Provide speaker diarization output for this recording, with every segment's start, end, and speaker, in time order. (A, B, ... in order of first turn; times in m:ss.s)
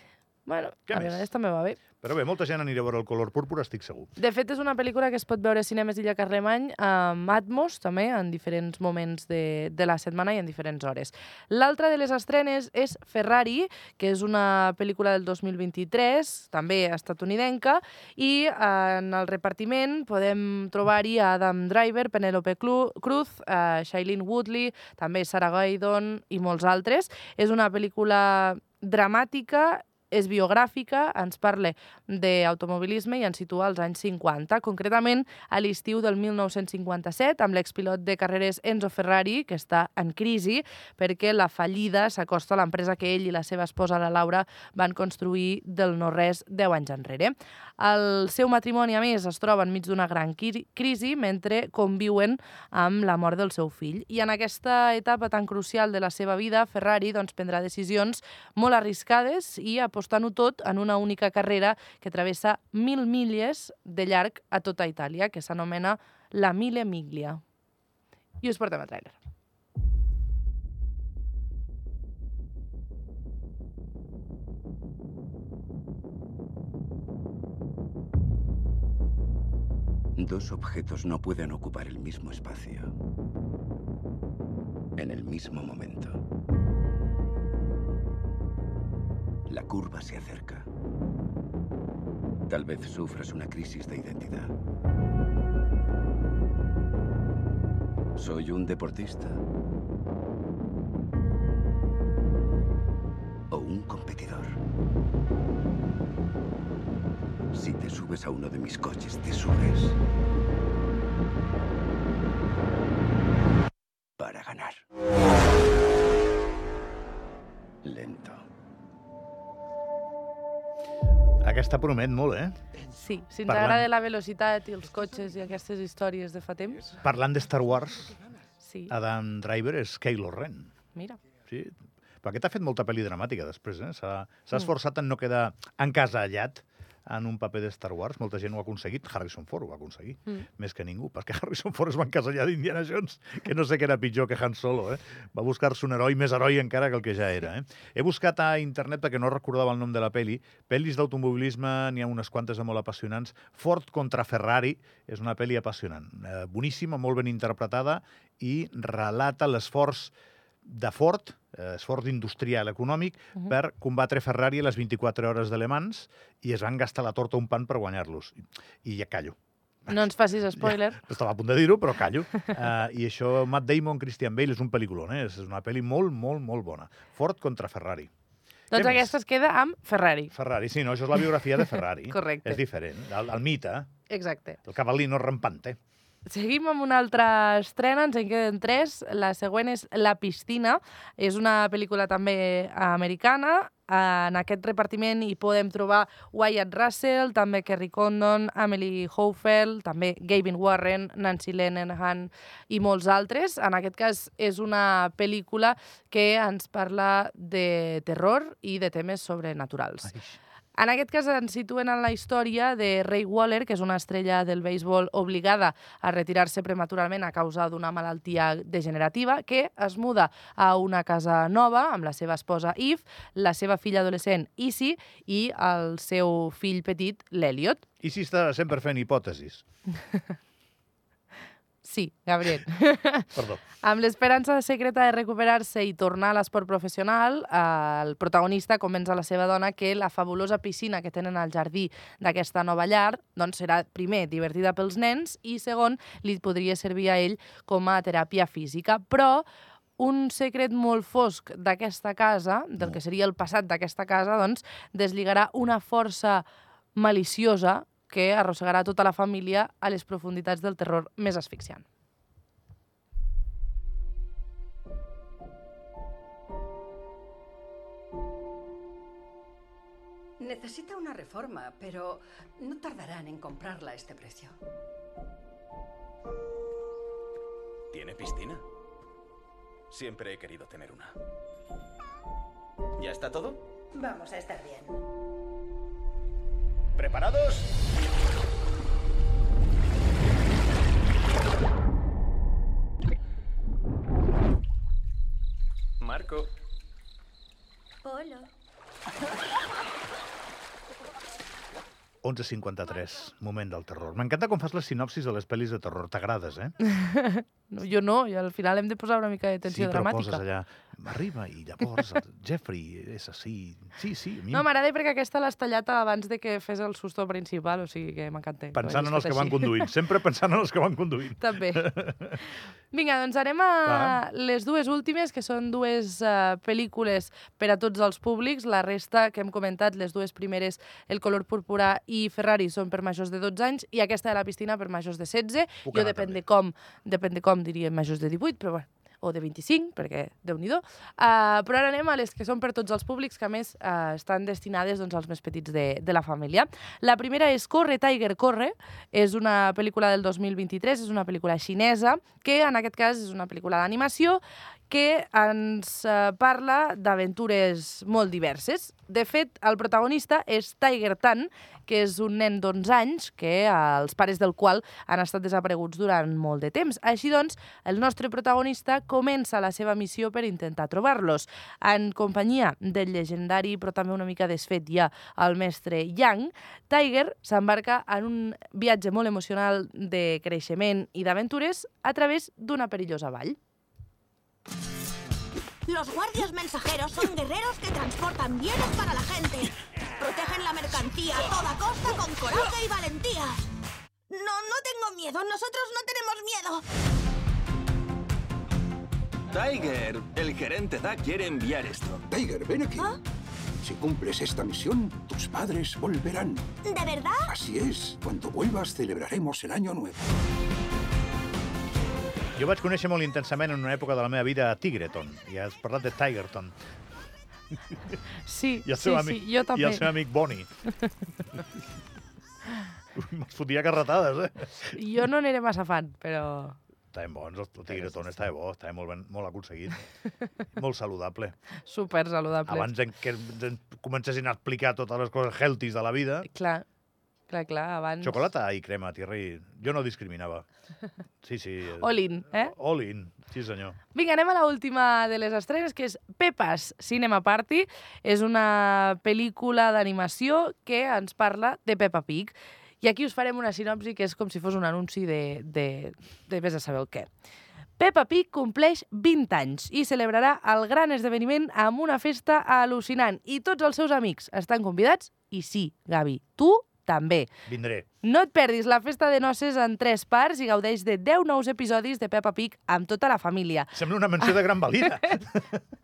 0:00.5-0:01.8 A
0:00.9-0:01.3 B
0:02.0-0:04.1 B
0:04.2-1:07.4 A
1:08.4-1:09.2 A
1:20.2-1:22.9 C
1:25.0-1:26.2 C
1:29.5-1:30.7 C
1:32.5-1:34.5 C
1:38.2-1:39.4 C
1:43.5-1:44.6 C
1:47.5-1:50.0 C
1:54.2-1:54.8 C
1:57.8-1:58.5 C
2:01.4-2:02.6 B
2:03.0-2:07.0 A
2:03.5-2:03.9 B
2:07.0-2:08.2 B
2:08.6-2:08.9 A
2:08.9-2:10.7 B
2:11.5-2:40.1 B
2:40.6-2:49.4 B
2:49.9-2:51.0 A
2:50.6-2:58.1 B
2:58.7-2:59.1 B
2:58.7-3:00.3 A
3:00.3-3:03.9 B
3:02.1-3:02.6 A
3:04.1-3:04.6 A
3:04.7-3:05.8 B
3:06.3-3:30.1 A
3:30.1-3:30.3 B
3:30.8-3:47.8 A
3:48.0-3:49.6 B
3:51.8-3:53.3 A
3:53.4-3:53.6 B
3:53.8-4:09.4 A
4:10.0-4:21.8 A
4:30.4-4:34.6 D
4:38.0-4:38.6 E
4:39.9-4:41.1 E
4:43.0-4:43.5 E
4:44.0-4:44.9 D
4:47.0-4:47.4 E
4:56.0-4:56.4 F
5:02.2-5:06.8 B
5:06.9-5:10.4 A
5:09.6-5:14.7 B
5:14.5-5:19.9 A
5:18.8-5:22.4 B
5:21.4-5:21.9 A
5:22.9-6:23.6 A
5:23.8-5:24.2 B
5:35.8-5:36.4 B
6:25.9-6:33.6 G
6:34.3-6:36.8 G
6:39.5-6:42.2 F
6:42.3-6:43.1 H
6:43.8-6:46.7 H
6:46.8-6:47.5 G
6:47.5-6:50.3 H
6:52.6-6:56.8 B
6:58.5-7:00.1 A
6:58.8-7:00.7 B
7:03.1-7:05.0 B
7:05.0-7:06.8 A
7:07.1-7:10.0 B
7:10.7-7:11.6 B
7:11.9-7:12.9 A
7:12.7-7:16.5 B
7:16.5-7:16.8 A
7:17.5-7:18.4 A
7:18.2-7:20.7 B
7:21.4-7:24.0 B
7:22.0-7:22.7 A
7:24.2-7:37.3 A
7:38.0-7:47.5 A
7:47.7-7:48.1 B
7:48.2-7:54.0 A
7:53.9-7:55.8 B